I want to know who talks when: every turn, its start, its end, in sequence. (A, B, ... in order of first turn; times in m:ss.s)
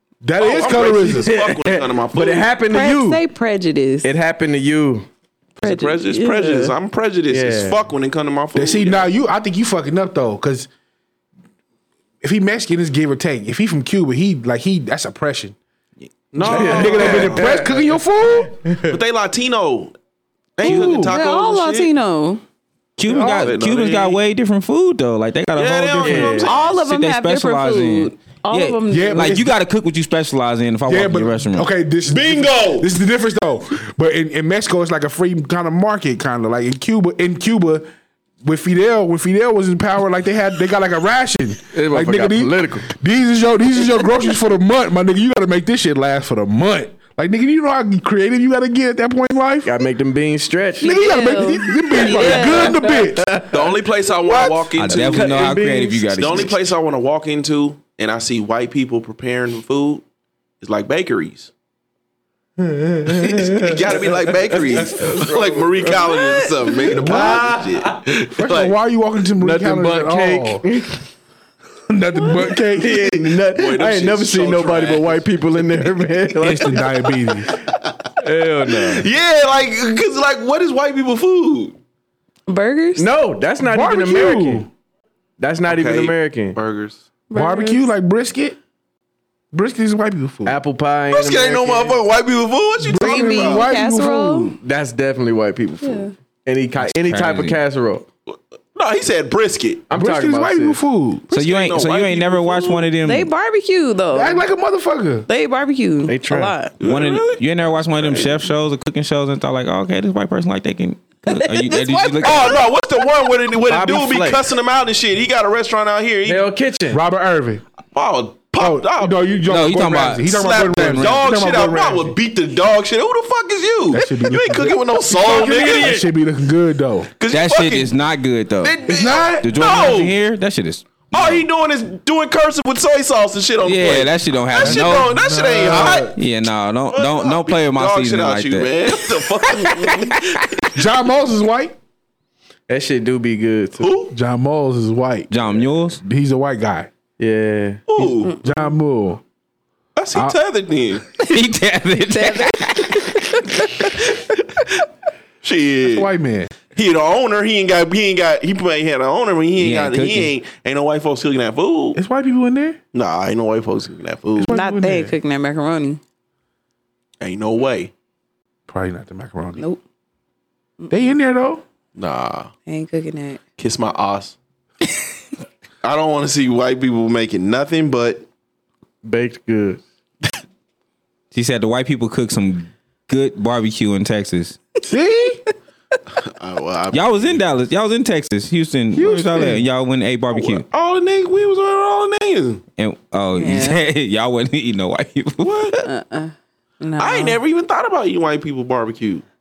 0:00.2-0:01.3 A
0:00.4-0:02.5 B
0:01.1-0:03.2 C
0:02.7-0:04.1 D
0:04.0-0:05.1 C
0:05.6-0:09.1 B
0:05.6-0:06.8 D
0:07.3-0:07.8 C
0:08.5-0:10.7 A
0:12.2-0:15.6 A
0:16.3-0:17.6 B
0:16.4-0:18.6 A
0:16.4-0:17.8 C
0:18.6-0:19.0 C
0:18.9-0:20.0 B
0:20.6-0:21.9 B
0:20.6-0:21.1 A
0:20.6-0:22.4 D
0:23.0-0:31.7 E
0:23.1-0:23.5 A
0:23.1-0:24.2 B
0:25.6-0:26.6 B
0:26.0-0:26.5 C
0:26.4-0:29.4 D
0:28.9-0:29.6 A
0:30.9-0:37.9 A
0:32.1-0:32.9 B
0:38.4-0:49.8 A
0:41.7-0:42.9 C
0:49.6-0:50.9 C
0:50.8-0:52.9 D
0:50.8-0:53.4 A
0:51.9-0:53.8 C
0:53.5-1:00.0 B
0:54.3-0:56.5 C
0:54.8-0:56.7 E
1:00.6-1:01.5 B
1:02.6-1:08.0 C
1:03.1-1:08.8 B
1:06.9-1:07.6 A
1:08.3-1:10.6 A
1:09.4-1:11.1 C
1:11.9-1:13.2 A
1:12.4-1:17.2 C
1:13.5-1:15.3 B
1:16.4-1:17.5 A
1:18.2-1:19.1 C
1:18.7-1:21.8 B
1:22.5-1:23.1 D
1:23.0-1:24.7 C
1:23.6-1:24.7 A
1:25.4-1:26.6 C
1:25.7-1:27.0 B
1:27.3-1:27.9 D
1:27.3-1:28.6 A
1:29.5-1:30.6 A
1:30.5-1:32.0 C
1:31.1-1:33.7 B
1:32.8-1:34.6 A
1:33.0-1:34.6 D
1:34.6-1:38.1 C
1:35.8-1:36.1 D
1:36.8-1:37.6 E
1:38.3-1:39.9 B
1:39.9-1:40.8 C
1:39.9-1:41.2 A
1:41.3-1:42.9 B
1:41.3-1:43.3 E
1:43.0-1:44.4 D
1:44.1-1:45.3 A
1:45.3-1:46.7 D
1:46.1-1:46.6 C
1:46.8-1:48.5 B
1:46.8-1:52.6 E
1:51.3-1:52.6 D
1:52.2-1:56.5 B
1:53.6-1:54.4 C
1:56.2-1:57.0 C
1:56.9-1:57.6 A
1:57.9-1:59.2 B
1:58.6-2:02.2 A
1:59.5-2:01.3 E
2:00.3-2:06.1 B
2:03.9-2:07.1 A
2:07.2-2:07.9 B
2:07.3-2:08.8 E
2:08.6-2:10.2 B
2:08.9-2:09.5 A
2:09.4-2:11.4 E
2:11.1-2:16.1 B
2:13.6-2:15.1 E
2:14.6-2:16.2 A
2:15.7-2:19.7 E
2:16.9-2:20.7 B
2:19.7-2:20.1 D
2:20.8-2:21.8 A
2:22.7-2:23.9 C
2:23.8-2:24.2 B
2:24.1-2:26.9 A
2:25.3-2:26.0 E
2:27.2-2:27.8 C
2:27.9-2:28.4 B
2:28.3-2:29.2 A
2:30.0-2:31.0 B
2:31.2-2:33.4 E
2:32.0-2:33.6 D
2:35.4-2:36.1 B
2:35.9-2:36.5 A
2:36.7-2:42.0 B
2:39.6-2:40.3 E
2:42.0-2:42.8 A
2:42.9-2:44.6 B
2:44.4-2:45.2 A
2:44.5-2:46.0 D
2:47.2-2:47.9 B
2:48.7-2:49.6 A
2:50.9-2:51.6 A
2:52.0-2:52.5 B
2:52.7-2:53.4 D
2:53.6-2:54.4 B
2:55.8-2:58.3 B
2:59.0-2:59.8 C
3:01.3-3:04.6 E
3:04.9-3:05.4 A
3:06.2-3:07.4 B
3:06.9-3:10.6 E
3:09.0-3:09.6 A
3:10.3-3:12.6 B
3:12.8-3:15.7 E
3:13.4-3:13.8 D
3:15.4-3:15.9 B
3:15.8-3:17.4 D
3:17.0-3:19.2 B